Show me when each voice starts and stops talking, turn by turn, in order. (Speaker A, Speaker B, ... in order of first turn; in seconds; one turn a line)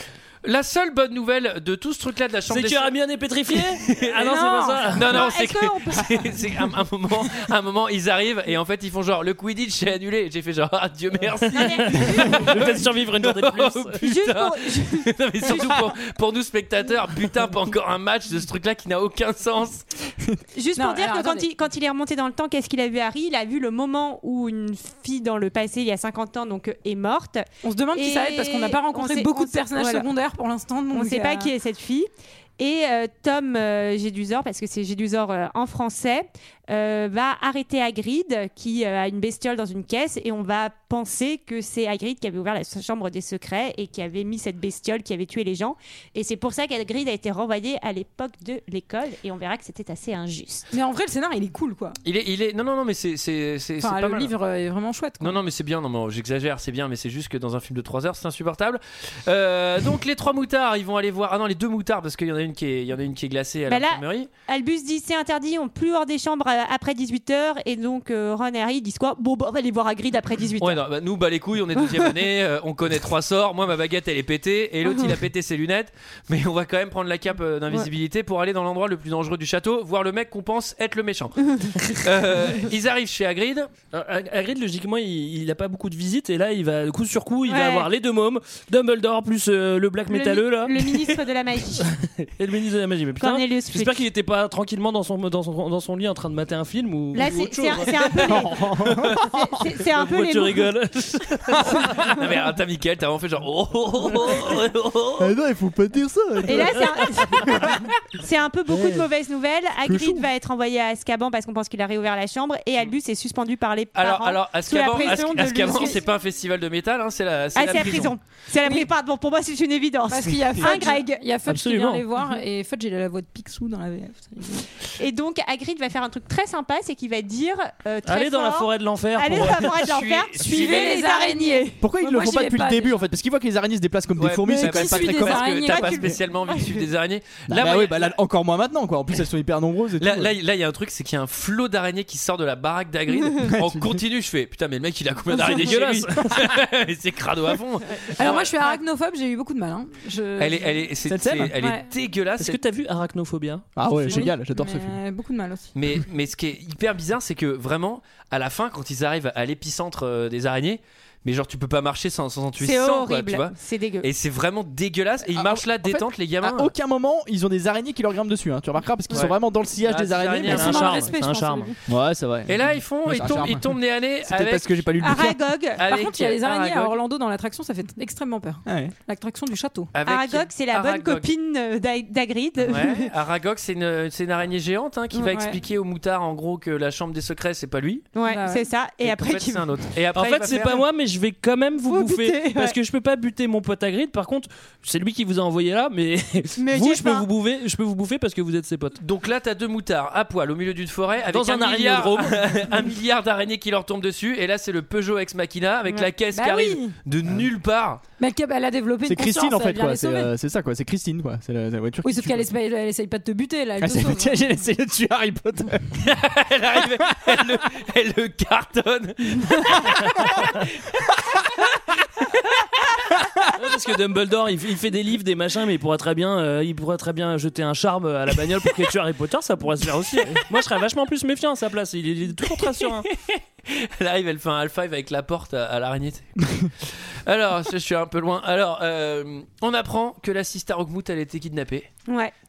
Speaker A: 0.4-2.9
Speaker B: 2.5-5.2
Speaker A: 3.7-4.2
Speaker C: 4.2-5.5
Speaker A: 4.9-20.1
Speaker D: 5.1-6.1
Speaker D: 11.5-12.5
Speaker B: 11.5-14.0
Speaker D: 14.0-15.9
Speaker D: 20.5-30.1
Speaker C: 20.8-21.5
Speaker C: 27.6-31.5
Speaker D: 30.9-50.7
Speaker C: 50.7-52.0
Speaker A: 52.0-54.3
Speaker C: 53.8-55.4
Speaker A: 55.2-64.3
Speaker D: 63.7-70.8
Speaker A: 70.6-83.7
Speaker B: 83.9-91.2
Speaker D: 87.5-87.9
Speaker D: 90.1-91.9
Speaker B: 91.8-98.4
Speaker D: 93.2-94.0
Speaker D: 97.1-100.7
Speaker E: 98.2-99.4
Speaker B: 99.9-101.9
Speaker A: 101.9-104.7
Speaker B: 104.2-105.1
Speaker E: 105.2-107.8
Speaker D: 106.5-116.0
Speaker E: 109.8-110.3
Speaker A: 113.9-118.1
Speaker C: 115.6-115.9
Speaker D: 117.5-121.2
Speaker C: 118.6-118.9
Speaker C: 120.1-124.7
Speaker B: 121.5-122.0
Speaker D: 125.0-131.8
Speaker B: 128.0-129.9
Speaker A: 129.8-130.8
Speaker C: 130.4-133.0
Speaker E: 131.8-135.5
Speaker A: 134.2-138.2
Speaker C: 134.4-136.2
Speaker D: 135.7-136.7
Speaker E: 137.5-140.3
Speaker A: 140.0-148.5
Speaker E: 143.4-144.0
Speaker B: 145.3-146.6
Speaker C: 148.2-150.9
Speaker D: 148.3-148.8
Speaker A: 150.4-152.6
Speaker E: 151.1-151.5
Speaker C: 151.6-151.8
Speaker B: 152.4-154.3
Speaker E: 153.8-154.9
Speaker C: 154.1-155.7
Speaker A: 155.7-166.7
Speaker D: 162.6-164.1
Speaker E: 165.3-170.9
Speaker A: 169.1-171.0
Speaker B: 170.5-171.7
Speaker C: 170.5-171.7
Speaker D: 171.0-171.7
Speaker E: 171.9-175.4
Speaker A: 172.5-174.9
Speaker D: 175.0-176.1
Speaker A: 175.8-177.0
Speaker C: 175.8-179.9
Speaker E: 178.7-178.9
Speaker A: 179.9-181.3
Speaker D: 180.0-183.1
Speaker A: 182.6-188.1
Speaker D: 185.1-185.6
Speaker D: 188.1-189.8
Speaker C: 188.2-188.7
Speaker A: 189.0-190.8
Speaker B: 190.1-199.0
Speaker D: 191.9-192.7
Speaker D: 196.6-197.3
Speaker A: 199.0-208.0
Speaker B: 201.3-202.8
Speaker C: 206.3-206.9
Speaker C: 208.2-210.3
Speaker E: 209.0-212.5
Speaker C: 212.0-214.4
Speaker E: 213.8-216.1
Speaker A: 216.0-220.7
Speaker B: 223.5-233.1
Speaker A: 233.2-241.9
Speaker D: 242.1-242.3